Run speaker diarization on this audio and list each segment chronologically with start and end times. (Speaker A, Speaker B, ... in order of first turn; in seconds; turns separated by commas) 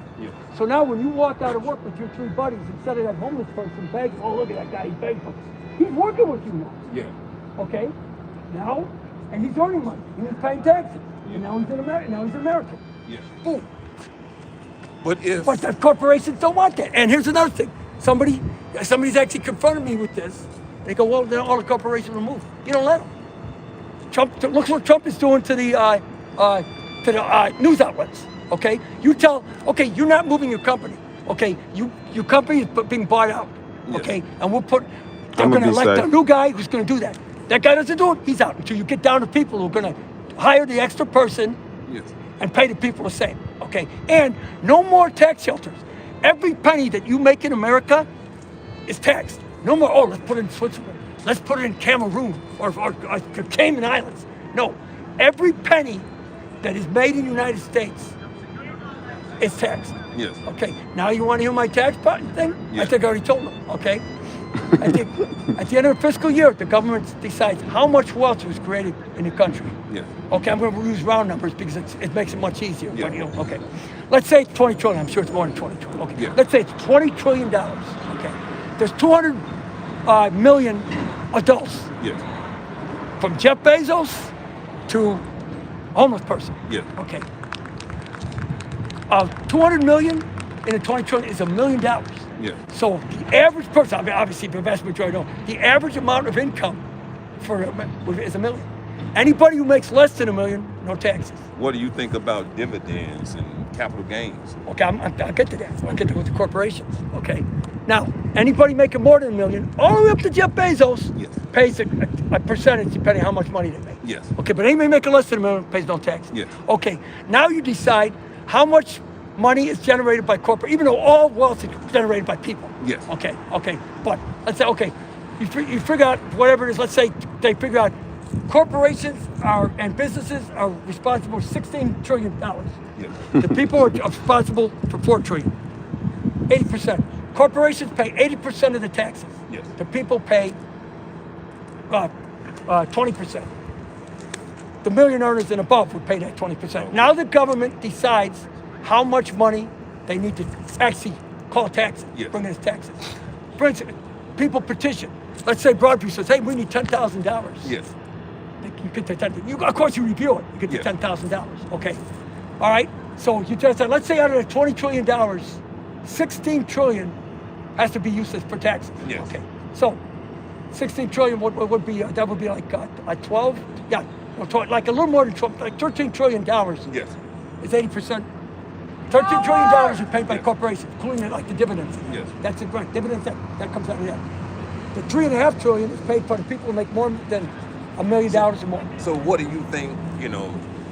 Speaker A: 0.5-6.8, Speaker B: 6.9-7.1, Speaker A: 7.6-7.9, Speaker A: 8.5-12.8, Speaker A: 13.4-13.7, Speaker B: 15.0-15.6, Speaker A: 15.4-23.1, Speaker A: 24.1-41.6, Speaker B: 33.9-34.1, Speaker B: 35.4-36.1, Speaker B: 41.9-42.1, Speaker A: 42.4-48.1, Speaker A: 48.9-56.1, Speaker A: 56.6-58.2, Speaker A: 59.4-64.0, Speaker B: 60.1-60.4, Speaker A: 64.7-69.8, Speaker A: 70.3-79.5, Speaker B: 72.9-73.3, Speaker A: 80.1-81.9, Speaker A: 83.2-84.3, Speaker A: 84.9-85.2, Speaker A: 86.0-87.2, Speaker A: 89.1-96.8, Speaker A: 97.4-101.5, Speaker B: 101.6-104.6, Speaker A: 104.7-127.9, Speaker B: 105.8-106.2, Speaker B: 114.0-114.3, Speaker B: 122.8-123.1, Speaker A: 128.5-132.8, Speaker B: 133.0-133.2, Speaker A: 133.3-135.5, Speaker A: 136.5-140.6, Speaker A: 142.7-143.5, Speaker A: 144.8-153.0, Speaker B: 146.8-147.1, Speaker A: 153.6-157.7, Speaker B: 157.6-157.9, Speaker A: 158.6-162.0, Speaker A: 162.6-167.2, Speaker A: 167.8-170.0, Speaker A: 170.7-176.9, Speaker B: 176.9-177.2, Speaker A: 177.6-178.3, Speaker A: 179.1-184.2, Speaker B: 182.1-182.3, Speaker A: 184.9-188.9, Speaker B: 189.0-190.6